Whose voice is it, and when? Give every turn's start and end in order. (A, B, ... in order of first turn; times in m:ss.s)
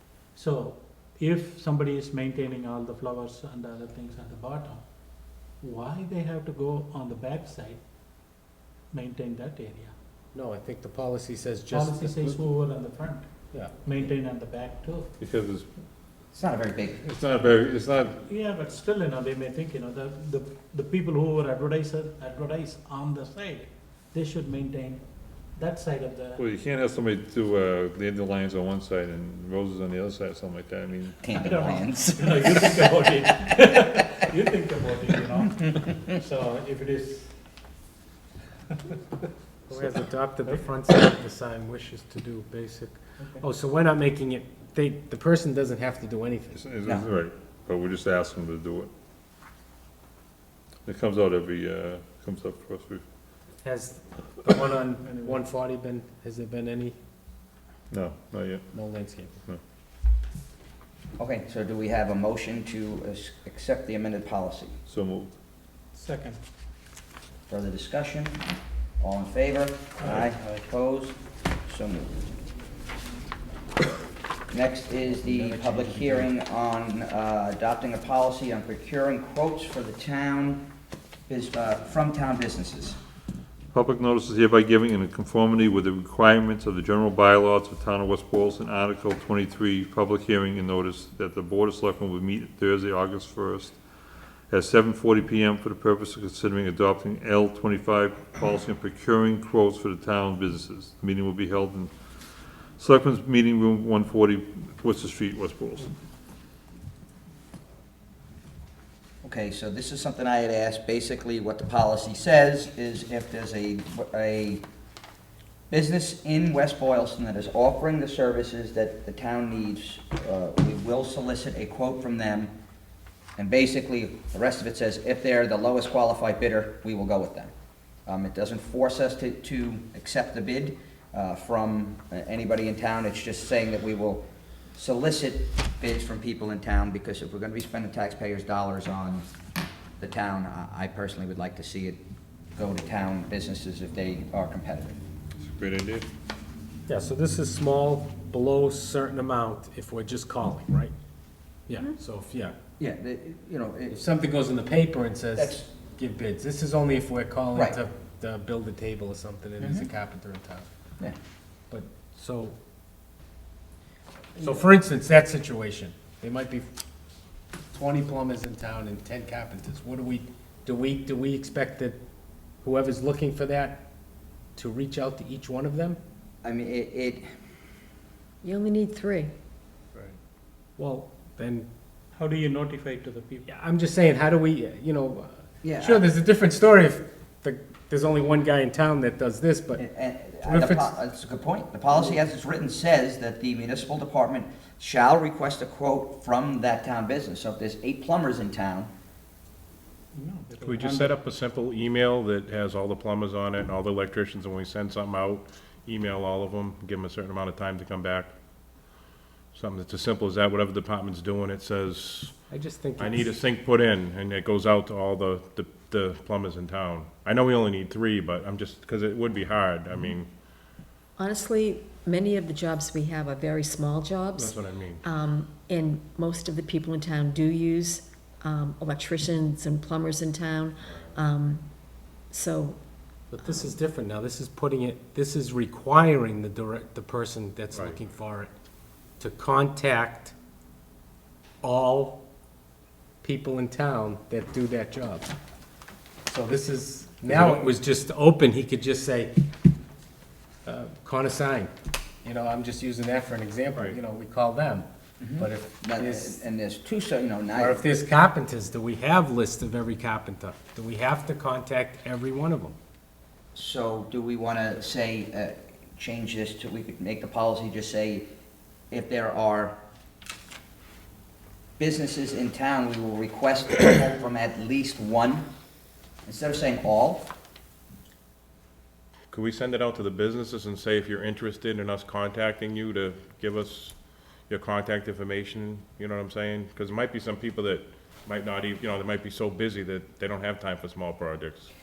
0:00.3-0:04.9 A
0:05.5-0:07.8 A
0:08.9-0:09.9 A
0:10.3-0:12.4 B
0:11.7-0:13.3 A
0:13.8-0:15.1 A
0:15.2-0:15.7 C
0:16.3-0:17.0 D
0:17.0-0:18.2 C
0:18.3-0:26.4 A
0:26.4-0:31.2 C
0:31.2-0:32.6 D
0:31.3-0:37.3 A
0:39.7-0:46.6 B
0:43.2-0:43.4 A
0:46.5-0:48.9 C
0:46.8-0:47.1 D
0:50.8-0:53.0 C
0:53.6-0:57.0 B
0:55.0-0:55.4 A
0:57.9-0:58.7 C
0:58.7-0:59.4 B
1:01.2-1:04.8 D
1:04.9-1:05.3 C
1:05.9-1:06.4 A
1:07.5-1:08.4 D
1:09.0-1:12.1 D
1:14.5-1:20.6 D
1:15.0-1:16.3 B
1:21.3-1:23.0 D
1:23.7-1:33.8 C
1:34.5-1:41.9 C
1:42.8-1:45.9 C
1:49.2-1:54.6 D
1:55.7-2:02.5 D
2:03.4-2:07.5 D
2:08.1-2:19.2 D
2:20.0-2:22.0 D
2:22.6-2:25.0 D
2:25.4-2:26.1 C
2:26.9-2:30.9 B
2:31.7-2:32.6 B
2:32.8-2:34.0 D
2:33.9-2:40.7 B
2:35.4-2:35.7 D
2:39.6-2:39.9 D
2:41.7-2:42.6 B
2:44.4-2:46.7 B
2:47.7-2:52.0 B
2:52.6-2:53.8 B
2:54.6-2:56.0 B
2:56.4-2:57.3 D
2:58.4-2:59.3 E
3:00.8-3:01.7 B
3:02.2-3:03.5 A
3:03.5-3:09.8 B
3:05.6-3:06.0 D
3:09.8-3:18.9 D
3:10.4-3:10.9 B
3:20.1-3:21.2 A
3:20.6-3:28.3 F
3:29.5-3:32.3 F
3:32.5-3:33.3 B
3:33.0-3:40.3 F
3:41.2-3:53.8 E
3:44.4-3:45.1 F
3:53.3-3:58.5 B
3:59.2-4:00.3 B
4:01.6-4:02.2 B
4:03.2-4:05.3 B
4:06.3-4:09.4 B
4:10.6-4:16.4 B
4:15.2-4:17.8 D
4:17.6-4:22.8 B
4:23.6-4:28.3 D
4:28.9-4:29.8 D
4:31.8-4:35.5 D
4:36.2-4:37.3 D
4:39.3-4:44.0 F
4:44.5-4:51.7 F